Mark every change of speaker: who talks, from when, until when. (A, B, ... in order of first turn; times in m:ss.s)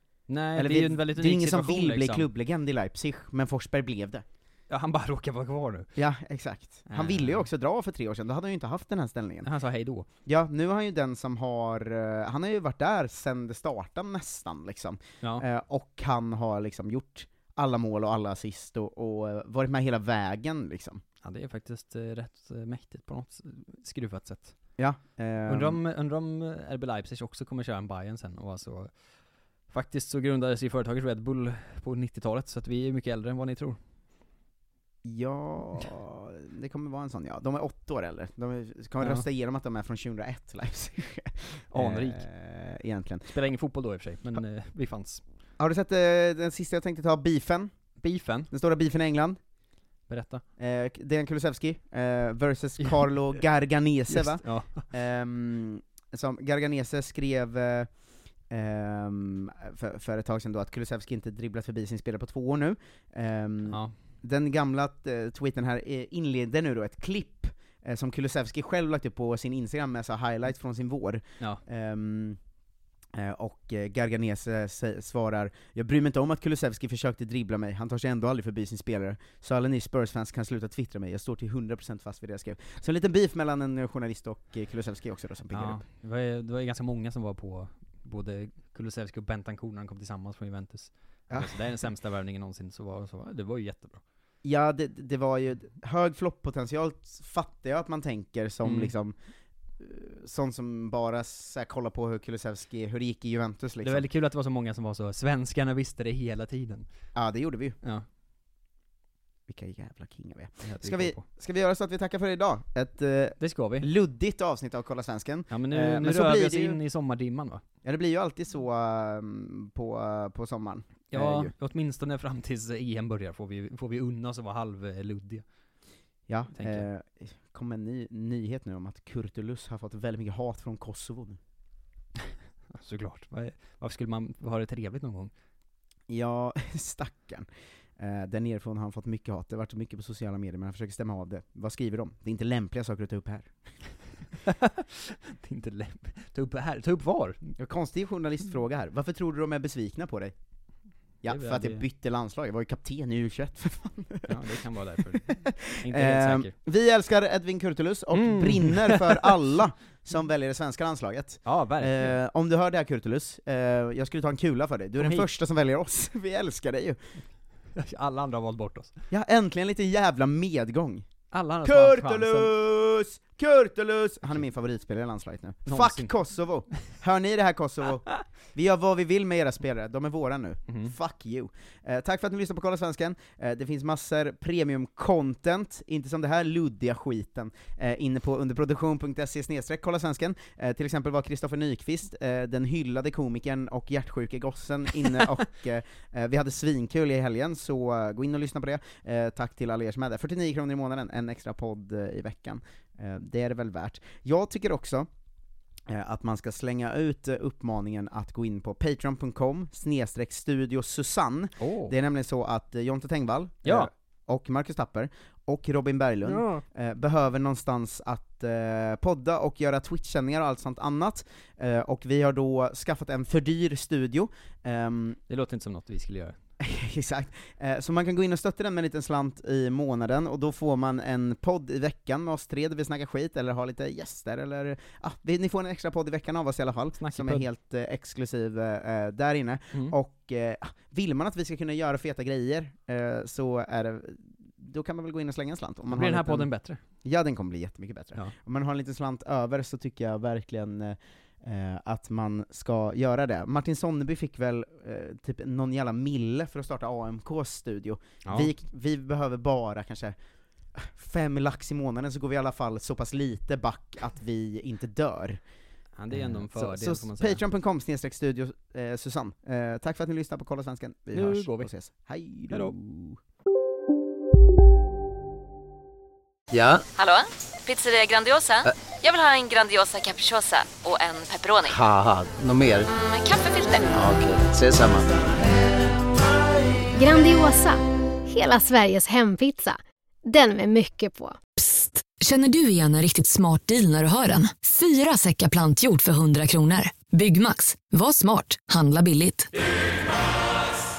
0:00.3-0:02.3 A
0:00.6-0:04.2 B
0:04.7-0:05.9 A
0:06.0-0:09.5 B
0:06.9-0:07.5 A
0:09.4-0:10.1 A
0:10.2-0:21.0 B
0:21.2-0:24.6 A
0:24.8-0:25.8 B
0:25.5-0:29.0 A
0:29.7-0:33.8 A
0:35.0-0:43.3 B
0:39.0-0:39.3 A
0:41.7-0:42.2 A
0:43.3-0:45.2 A
0:45.6-0:47.8 B
0:48.0-0:48.5 A
0:48.5-0:49.4 B
0:50.1-0:50.4 A
0:50.6-1:12.4 B
0:52.8-0:53.1 A
0:54.1-0:54.9 A
1:03.7-1:04.0 A
1:13.1-1:25.8 B
1:25.5-1:34.0 A
1:31.3-1:31.6 B
1:34.4-1:39.1 B
1:38.6-1:38.9 A
1:39.8-1:44.1 B
1:43.8-1:46.9 A
1:47.1-1:47.8 B
1:49.5-1:56.8 B
1:50.6-1:51.2 A
1:53.4-1:53.9 A
1:55.5-1:57.6 A
1:57.8-2:01.5 B
2:01.1-2:05.4 A
2:06.3-2:11.4 B
2:06.5-2:06.9 A
2:12.7-2:15.3 A
2:16.1-2:23.5 B
2:24.4-2:27.5 A
2:27.6-2:30.4 B
2:31.2-2:34.4 B
2:31.3-2:31.8 A
2:34.3-2:36.5 A
2:35.0-2:47.0 B
2:38.1-2:39.3 A
2:41.4-2:42.2 A
2:45.0-2:45.3 A
2:47.7-2:49.0 A
2:49.1-2:51.1 B
2:51.3-2:52.5 A
2:51.6-3:25.1 B
2:55.7-2:56.1 A
3:00.7-3:00.9 A
3:25.9-3:45.2 B
3:31.6-3:32.0 A
3:33.6-3:33.9 A
3:36.2-3:36.6 A
3:45.3-3:46.4 A
3:46.6-4:20.2 B
3:57.0-3:57.4 A
4:05.9-4:06.8 A
4:18.2-4:18.5 A
4:20.7-4:25.4 B
4:26.0-4:27.4 A
4:26.1-4:33.2 B
4:31.1-4:31.7 A
4:32.5-4:32.8 A
4:36.5-4:36.8 C
4:37.0-4:41.8 D
4:41.7-4:42.9 C
4:43.0-4:44.0 D
4:43.9-4:45.4 C
4:47.0-4:51.4 E
4:52.2-4:59.5 F